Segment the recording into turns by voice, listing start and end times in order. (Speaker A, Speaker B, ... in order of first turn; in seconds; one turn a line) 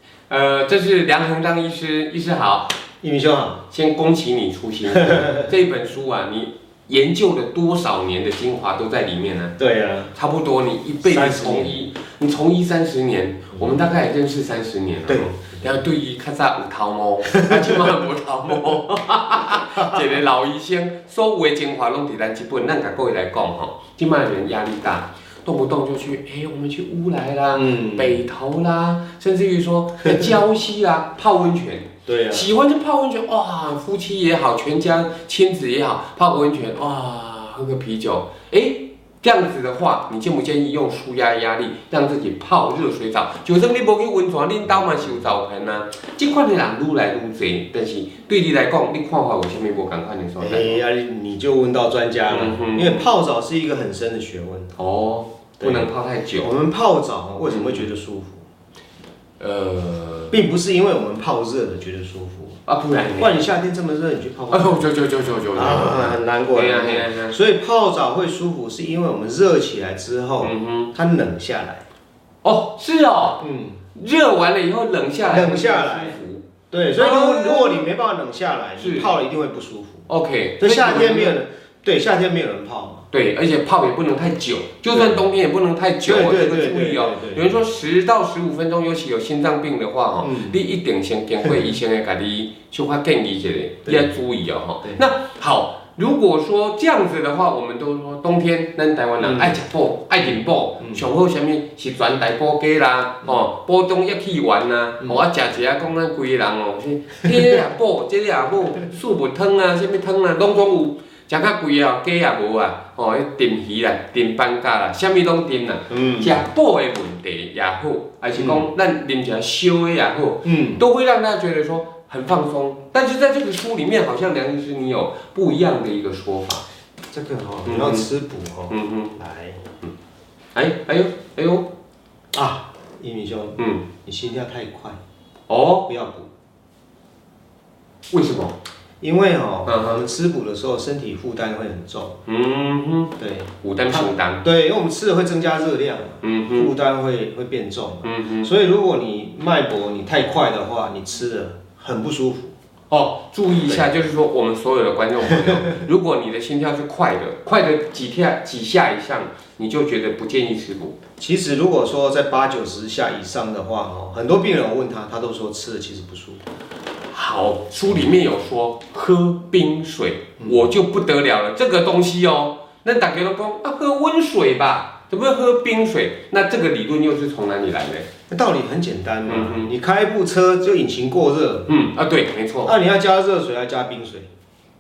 Speaker A: 0.3-2.8
Speaker B: 3.0-3.6
Speaker A: 3.7-9.6
Speaker B: 5.1-5.5
Speaker B: 9.6-10.1
Speaker A: 10.1-50.8
Speaker B: 11.0-11.8
Speaker B: 17.3-17.9
Speaker B: 27.6-28.2
Speaker B: 32.1-32.5
Speaker B: 50.4-54.8
Speaker A: 52.3-53.1
Speaker A: 54.8-56.5
Speaker B: 55.6-58.4
Speaker A: 57.5-57.9
Speaker A: 59.4-60.4
Speaker B: 60.3-62.6
Speaker A: 62.7-63.5
Speaker B: 63.2-64.9
Speaker A: 64.5-67.4
Speaker B: 65.5-71.8
Speaker A: 70.4-70.9
Speaker A: 72.4-76.5
Speaker B: 73.4-73.8
Speaker B: 75.3-76.2
Speaker B: 76.7-80.1
Speaker A: 77.0-77.9
Speaker A: 78.8-79.1
Speaker A: 80.1-81.4
Speaker B: 80.6-83.1
Speaker A: 83.1-126.7
Speaker B: 84.9-85.2
Speaker B: 86.0-87.5
Speaker B: 90.2-90.6
Speaker B: 99.2-99.6
Speaker B: 115.9-116.4
Speaker B: 118.3-118.7
Speaker B: 120.4-120.8
Speaker B: 127.1-129.6
Speaker A: 127.7-128.1
Speaker A: 128.7-129.1
Speaker A: 130.6-131.7
Speaker B: 132.3-135.0
Speaker A: 133.6-133.8
Speaker A: 135.5-135.9
Speaker B: 135.9-136.3
Speaker A: 138.1-138.6
Speaker B: 139.0-142.2
Speaker A: 139.7-140.0
Speaker A: 142.3-144.4
Speaker B: 143.2-152.5
Speaker A: 146.2-146.7
Speaker A: 148.0-148.5
Speaker A: 152.9-161.0
Speaker B: 155.2-155.6
Speaker B: 161.2-166.4
Speaker A: 167.1-178.1
Speaker B: 170.4-170.7
Speaker B: 178.3-181.7
Speaker A: 179.3-179.7
Speaker A: 181.7-182.8
Speaker B: 182.6-184.3